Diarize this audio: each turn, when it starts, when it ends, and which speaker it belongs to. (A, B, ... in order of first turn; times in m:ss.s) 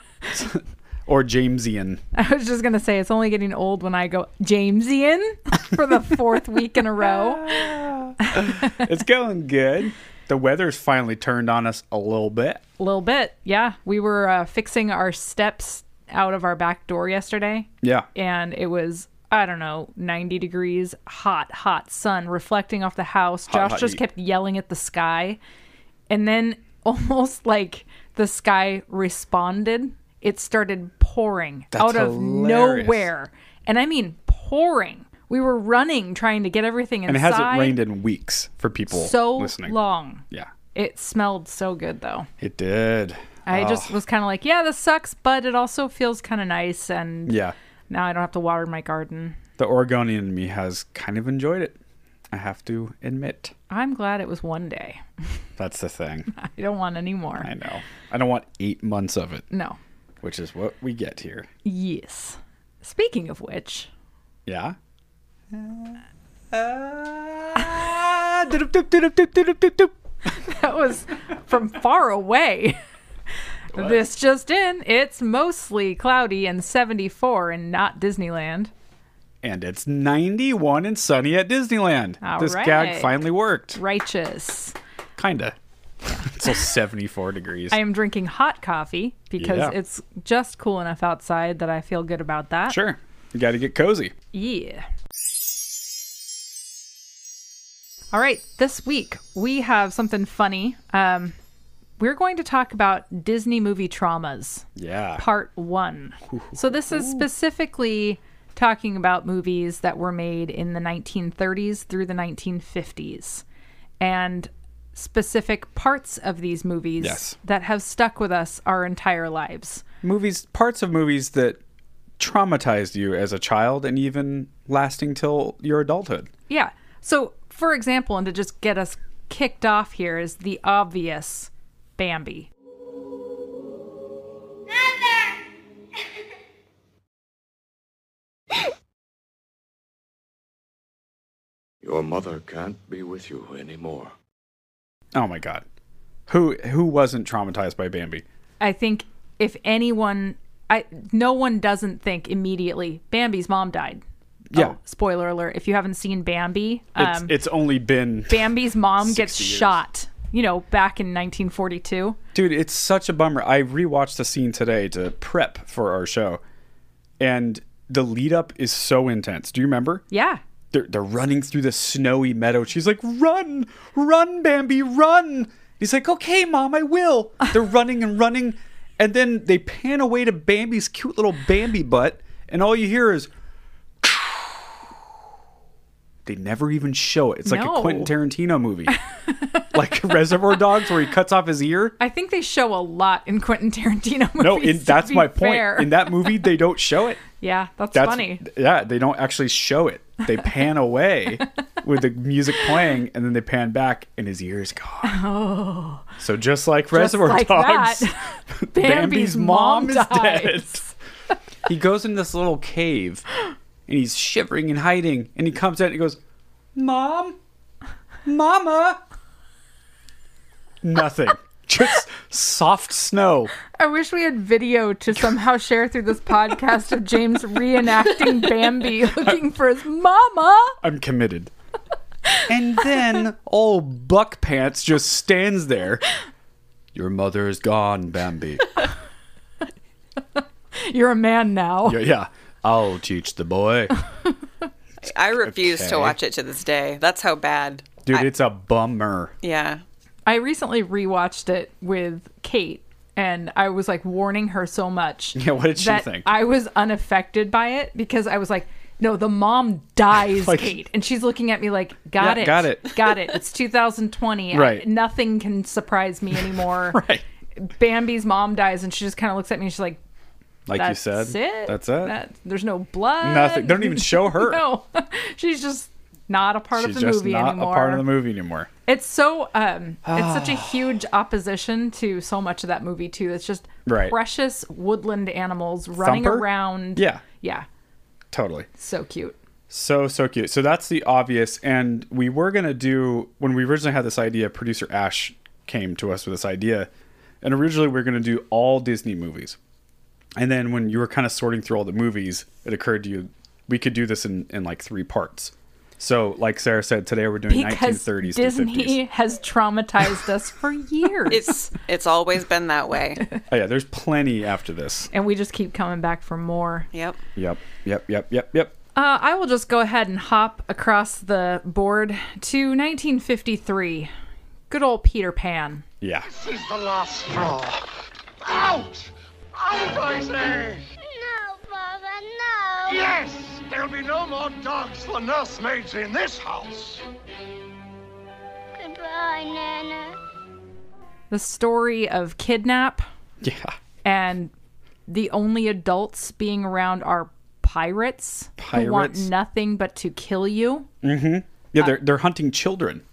0:00.3-0:02.0 A
0:02.1-0:08.8 B
0:07.0-0:12.6 A
0:12.8-0:25.4 B
0:17.8-0:18.1 A
0:23.5-0:24.0 A
0:26.1-0:37.8 B
0:31.7-0:33.1 A
0:37.1-0:39.8 A
0:38.9-0:42.3 B
0:42.4-0:44.0 A
0:43.5-0:49.4 B
0:47.3-0:47.5 A
0:49.6-0:51.8 A
0:52.3-0:53.5 A
0:53.7-0:55.0 B
0:55.6-0:56.3 A
0:56.3-0:57.5 B
0:57.4-0:59.5 A
0:59.5-0:59.8 B
1:00.2-1:01.5 A
1:01.6-1:03.9 B
1:04.5-1:04.8 A
1:05.5-1:06.0 A
1:06.5-1:09.9 A
1:10.3-1:12.8 B
1:13.7-1:18.7 B
1:13.7-1:14.0 A
1:19.4-1:23.8 A
1:22.2-1:23.2 B
1:23.7-1:24.8 B
1:25.2-1:25.6 A
1:26.1-1:26.4 B
1:26.2-1:27.8 A
1:27.7-1:32.8 B
1:29.4-1:29.8 A
1:32.7-1:34.1 A
1:34.3-1:34.8 B
1:38.1-1:41.4 B
1:42.0-1:44.6 B
1:44.8-1:45.2 A
1:45.2-1:53.4 B
1:46.3-1:47.2 A
1:54.0-1:59.8 B
1:57.0-1:57.4 A
2:00.0-2:01.6 A
2:02.2-2:06.3 A
2:06.5-2:12.5 B
2:21.8-2:24.1 C
2:25.1-2:25.6 A
2:26.3-2:28.2 A
2:28.6-2:34.0 B
2:34.5-2:34.8 A
2:34.5-2:37.3 B
2:37.0-2:39.8 A
2:38.3-2:42.2 B
2:42.3-2:46.4 A
2:47.2-2:50.0 A
2:50.1-2:50.4 B
2:50.7-3:03.3 A
3:04.0-3:04.5 A
3:06.2-3:09.0 A
3:07.4-3:08.1 B
3:08.9-3:09.7 B
3:09.7-3:12.0 A
3:12.0-3:16.5 B
3:14.4-3:17.2 A
3:17.4-3:18.4 B
3:17.9-3:25.2 A
3:25.0-3:26.1 B
3:26.2-3:30.8 A
3:26.9-3:30.9 B
3:31.7-3:33.2 A
3:33.9-3:36.2 A
3:36.8-3:37.4 A
3:38.2-3:39.0 A
3:40.8-3:43.5 A
3:43.7-3:50.8 B
3:49.1-3:49.4 A
3:50.8-3:51.5 A
3:52.5-3:56.0 A
3:56.9-3:58.8 A
4:00.3-4:02.0 B
4:01.8-4:04.0 A
4:05.0-4:08.3 D
4:05.4-4:06.2 A
4:08.0-4:09.3 A
4:09.4-4:09.8 D
4:10.2-4:27.0 B
4:15.3-4:16.3 A
4:20.3-4:20.8 A
4:22.2-4:23.0 A
4:24.5-4:24.9 A
4:26.3-4:27.2 A
4:27.6-4:30.0 B
4:30.7-4:32.2 A
4:30.7-4:38.0 B
4:33.2-4:34.6 A
4:36.7-4:38.7 A
4:38.9-4:47.7 B
4:40.0-4:41.0 A
4:43.9-4:44.2 A
4:46.0-4:47.2 A
4:48.3-4:48.7 A
4:48.8-4:49.4 B
4:49.7-4:56.9 A
4:57.4-4:59.6 A
5:00.4-5:09.0 A
5:07.5-5:11.7 B
5:11.3-5:13.2 D
5:13.5-5:15.1 A
5:15.1-5:16.9 B
5:16.9-5:17.2 D
5:17.4-5:18.7 A
5:19.0-5:24.1 B
5:24.7-5:25.8 B
5:26.0-5:26.3 A
5:26.2-5:27.8 E
5:28.4-5:30.8 E
5:31.0-5:33.1 F
5:32.9-5:37.0 E
5:38.8-5:40.2 F
5:41.3-5:43.1 B
5:43.4-5:43.8 A
5:44.0-5:44.5 B
5:45.1-5:50.9 B
5:48.6-5:49.3 A
5:51.0-5:53.0 A